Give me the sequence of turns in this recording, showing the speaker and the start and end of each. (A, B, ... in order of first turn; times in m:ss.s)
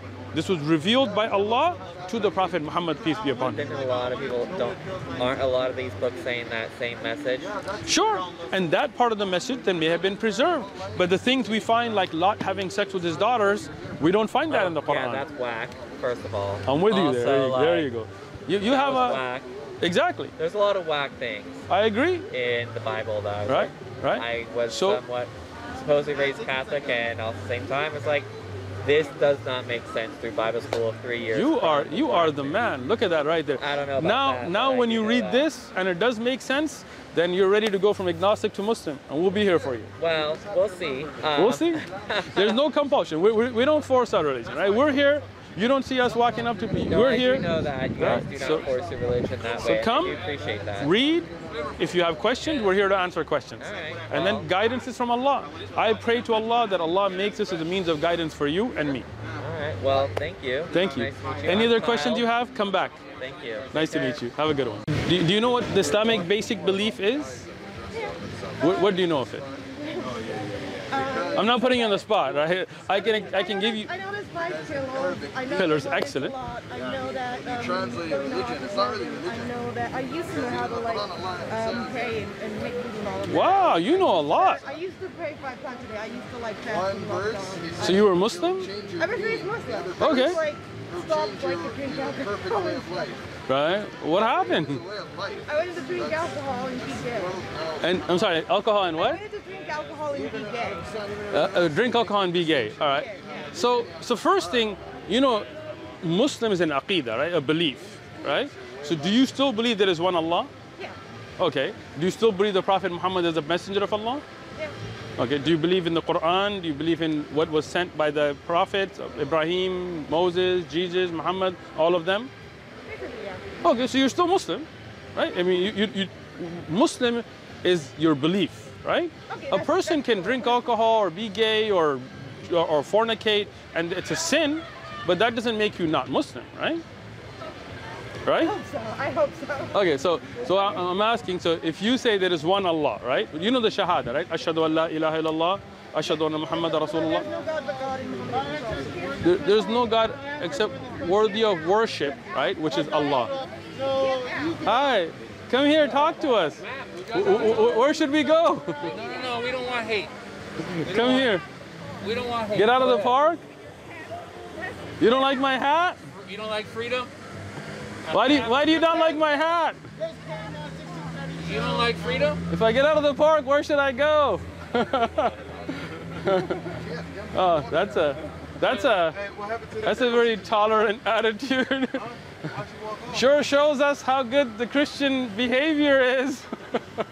0:00.3-0:03.7 A
0:03.4-0:07.5 B
0:07.9-0:15.3 A
0:14.5-0:17.9 B
0:16.6-0:19.2 A
0:18.6-0:19.5 B
0:19.8-0:20.3 A
0:20.4-0:21.7 B
0:21.7-0:22.3 A
0:22.3-0:28.3 B
0:23.5-0:25.0 A
0:28.8-0:32.6 B
0:31.3-0:39.9 A
0:33.6-0:35.4 B
0:40.0-0:42.6 B
0:41.4-0:47.5 A
0:46.8-0:50.9 B
0:48.0-0:48.7 A
0:49.6-0:50.2 A
0:50.8-0:59.1 A
0:53.6-0:54.5 B
0:59.4-1:02.3 B
1:00.7-1:03.0 A
1:03.2-1:04.2 B
1:03.7-1:07.5 A
1:08.1-1:08.9 C
1:08.6-1:09.4 A
1:09.8-1:10.2 C
1:10.9-1:12.1 C
1:11.4-1:13.9 A
1:13.0-1:28.1 C
1:15.5-1:16.4 A
1:18.2-1:18.9 D
1:20.6-1:21.3 D
1:23.2-1:24.6 A
1:27.8-1:29.1 D
1:27.8-1:28.7 A
1:29.0-1:33.2 C
1:29.8-1:30.2 D
1:30.0-1:30.4 A
1:33.5-1:34.8 A
1:35.5-1:37.4 C
1:37.8-1:39.2 A
1:39.0-1:40.9 C
1:41.3-1:45.5 A
1:42.9-1:43.5 C
1:46.0-1:50.5 A
1:51.4-1:54.2 A
1:55.2-2:02.3 A
2:02.9-2:03.5 C
2:03.6-2:16.8 A
2:09.3-2:10.6 C
2:18.3-2:18.6 A
2:18.4-2:19.8 C
2:19.7-2:27.3 A
2:26.8-2:29.8 C
2:29.2-2:33.4 A
2:33.8-2:34.7 C
2:34.6-2:39.0 A
2:36.6-2:37.8 E
2:38.9-2:40.1 E
2:40.8-2:41.4 E
2:40.8-2:41.4 A
2:42.0-2:43.2 E
2:42.6-2:43.4 A
2:45.0-2:46.0 A
2:46.1-2:47.1 E
2:48.1-2:49.0 E
2:48.1-2:49.8 A
2:50.2-2:51.3 C
2:51.4-2:52.4 E
2:52.5-2:56.8 A
2:57.3-3:02.2 A
2:59.4-2:59.7 D
3:03.0-3:06.8 A